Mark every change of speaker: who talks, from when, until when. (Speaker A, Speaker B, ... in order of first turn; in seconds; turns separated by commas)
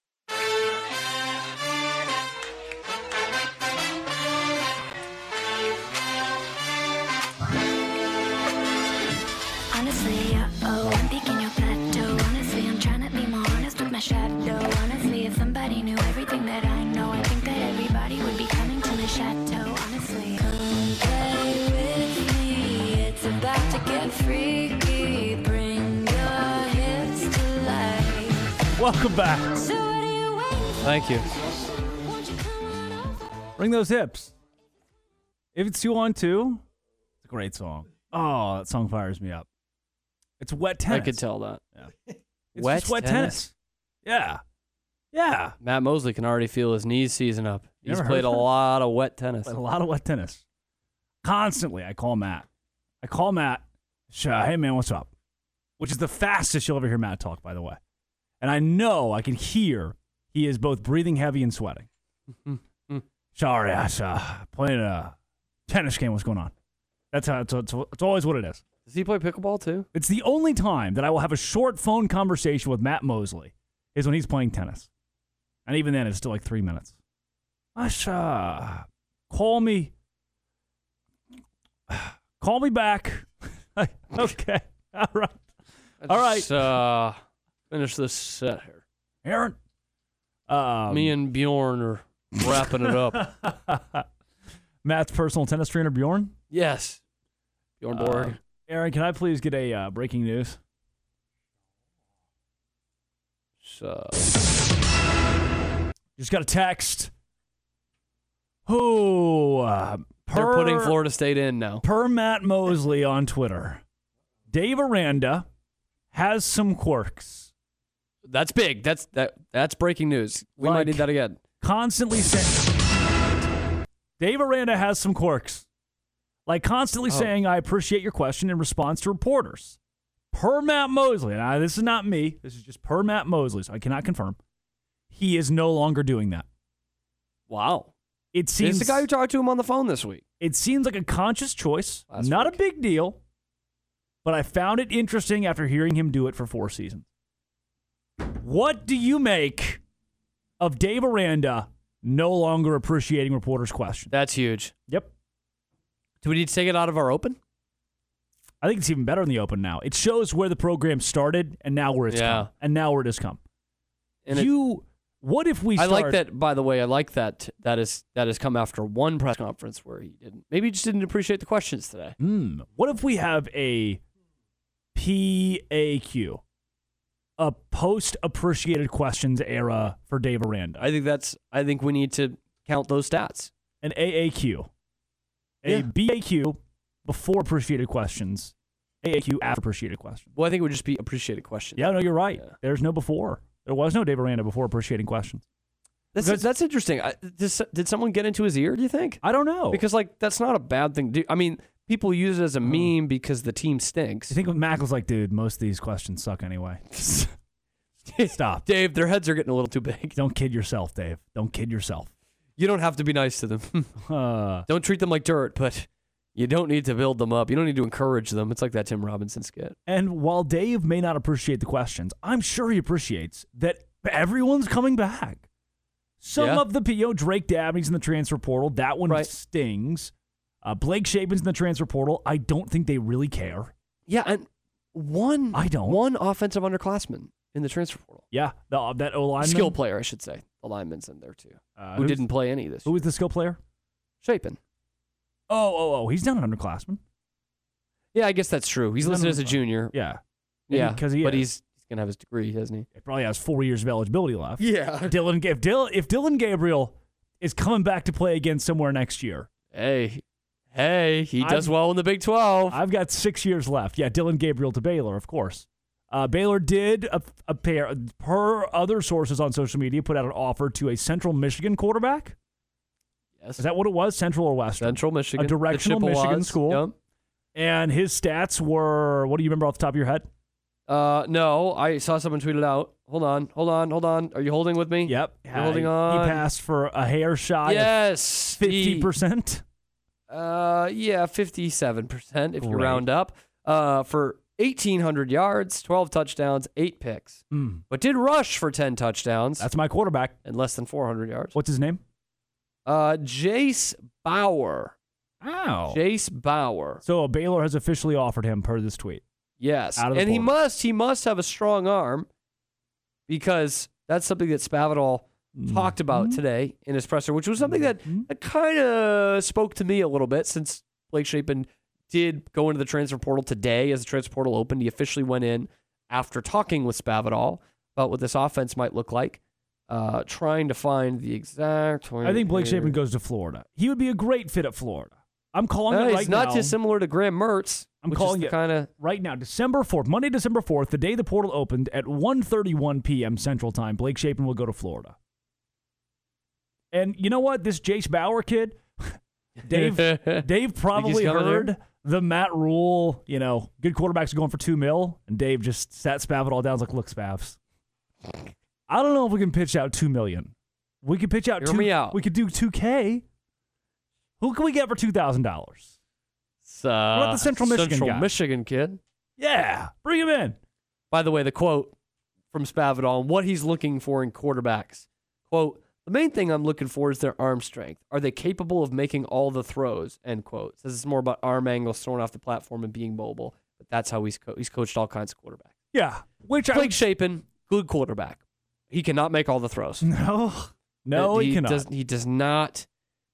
Speaker A: 9.7-28.6, Speaker B: 28.8-29.7, Speaker C: 30.8-31.2, Speaker B: 33.6-34.3, Speaker B: 35.5-36.6, Speaker B: 37.2-39.5, Speaker B: 40.4-41.2, Speaker C: 40.9-41.6, Speaker B: 42.5-43.5, Speaker C: 42.5-43.4, Speaker B: 44.0-44.4, Speaker B: 45.1-45.5, Speaker C: 45.6-49.5, Speaker B: 47.9-48.5, Speaker B: 49.5-50.4, Speaker B: 51.2-52.5, Speaker B: 53.0-55.1, Speaker B: 55.8-57.8, Speaker B: 58.4-61.9, Speaker C: 62.5-63.0, Speaker B: 63.3-65.1, Speaker B: 65.7-66.5, Speaker B: 67.1-68.6, Speaker C: 68.8-69.9, Speaker B: 69.9-74.9, Speaker B: 75.7-77.0, Speaker B: 77.8-79.9, Speaker B: 81.9-85.4, Speaker C: 86.0-87.2, Speaker B: 86.1-86.7, Speaker C: 87.7-88.8, Speaker B: 89.2-89.5, Speaker B: 90.5-91.1, Speaker C: 90.9-93.3, Speaker B: 93.1-94.0, Speaker B: 94.8-96.3, Speaker C: 96.5-97.0, Speaker C: 97.8-98.4, Speaker B: 97.9-100.6, Speaker C: 103.6-104.2, Speaker B: 106.2-107.1, Speaker B: 108.7-111.0, Speaker C: 110.3-111.8, Speaker B: 111.8-113.8, Speaker B: 114.5-115.5, Speaker B: 116.1-117.5, Speaker C: 118.3-121.4, Speaker B: 120.6-121.0, Speaker B: 121.6-122.7, Speaker B: 124.2-125.6, Speaker B: 126.5-129.8, Speaker B: 130.3-134.4, Speaker B: 135.1-136.4, Speaker C: 137.5-137.9, Speaker B: 138.3-139.1, Speaker C: 138.6-140.2, Speaker B: 140.4-143.2, Speaker C: 142.1-142.6, Speaker B: 144.2-147.1, Speaker B: 148.3-149.8, Speaker B: 150.6-154.1, Speaker C: 154.1-154.7, Speaker C: 156.2-157.4, Speaker B: 158.6-163.4, Speaker C: 162.1-162.5, Speaker C: 164.2-164.5, Speaker B: 164.3-166.2, Speaker C: 165.8-172.2, Speaker B: 172.2-174.0, Speaker B: 174.9-176.4, Speaker B: 177.4-180.8, Speaker C: 180.8-183.5, Speaker B: 183.8-184.7, Speaker B: 185.6-190.3, Speaker C: 190.3-192.5, Speaker B: 191.8-195.4, Speaker C: 196.1-204.3, Speaker B: 196.2-196.5, Speaker B: 199.2-199.8, Speaker B: 202.6-202.9, Speaker B: 204.3-207.3, Speaker B: 208.1-208.7, Speaker C: 208.6-210.2, Speaker B: 210.1-212.1, Speaker C: 212.6-213.9, Speaker B: 214.0-214.7, Speaker C: 214.7-219.7, Speaker B: 219.9-225.4, Speaker B: 226.2-230.1, Speaker C: 226.4-226.6, Speaker B: 230.6-233.7, Speaker C: 234.1-238.2, Speaker B: 235.5-236.0, Speaker B: 238.3-239.8, Speaker C: 239.4-242.9, Speaker B: 241.8-242.2, Speaker B: 242.8-243.6, Speaker C: 244.2-244.6, Speaker B: 245.5-247.0, Speaker C: 248.1-249.9, Speaker B: 249.0-251.4, Speaker C: 250.7-252.9, Speaker B: 252.9-259.5, Speaker C: 254.6-255.1, Speaker C: 259.7-260.2, Speaker C: 260.7-262.8, Speaker B: 261.4-261.7, Speaker B: 262.7-272.3, Speaker B: 273.6-276.9, Speaker C: 274.8-276.9, Speaker B: 277.5-280.3, Speaker C: 280.9-286.4, Speaker B: 285.1-289.6, Speaker C: 287.6-289.1, Speaker C: 290.3-299.7, Speaker B: 292.6-293.0, Speaker B: 297.5-297.8, Speaker B: 299.6-300.4, Speaker C: 300.4-301.5, Speaker B: 301.5-302.0, Speaker C: 302.9-304.9, Speaker B: 305.4-306.0, Speaker C: 305.9-307.0, Speaker B: 307.0-309.2, Speaker C: 309.6-312.3, Speaker B: 309.9-310.5, Speaker C: 313.3-333.0, Speaker B: 315.5-316.4, Speaker B: 317.6-318.3, Speaker B: 332.2-336.8, Speaker C: 335.9-338.9, Speaker B: 338.0-345.1, Speaker B: 346.9-349.1, Speaker C: 349.6-350.4, Speaker B: 349.6-357.6, Speaker C: 350.9-351.7, Speaker B: 358.9-363.2, Speaker C: 361.6-362.2, Speaker B: 364.4-365.9, Speaker C: 366.6-369.0, Speaker B: 367.1-368.3, Speaker B: 369.4-370.6, Speaker C: 371.1-371.9, Speaker C: 372.5-385.7, Speaker B: 385.9-387.0, Speaker C: 386.7-390.1, Speaker B: 390.0-391.9, Speaker C: 391.1-392.9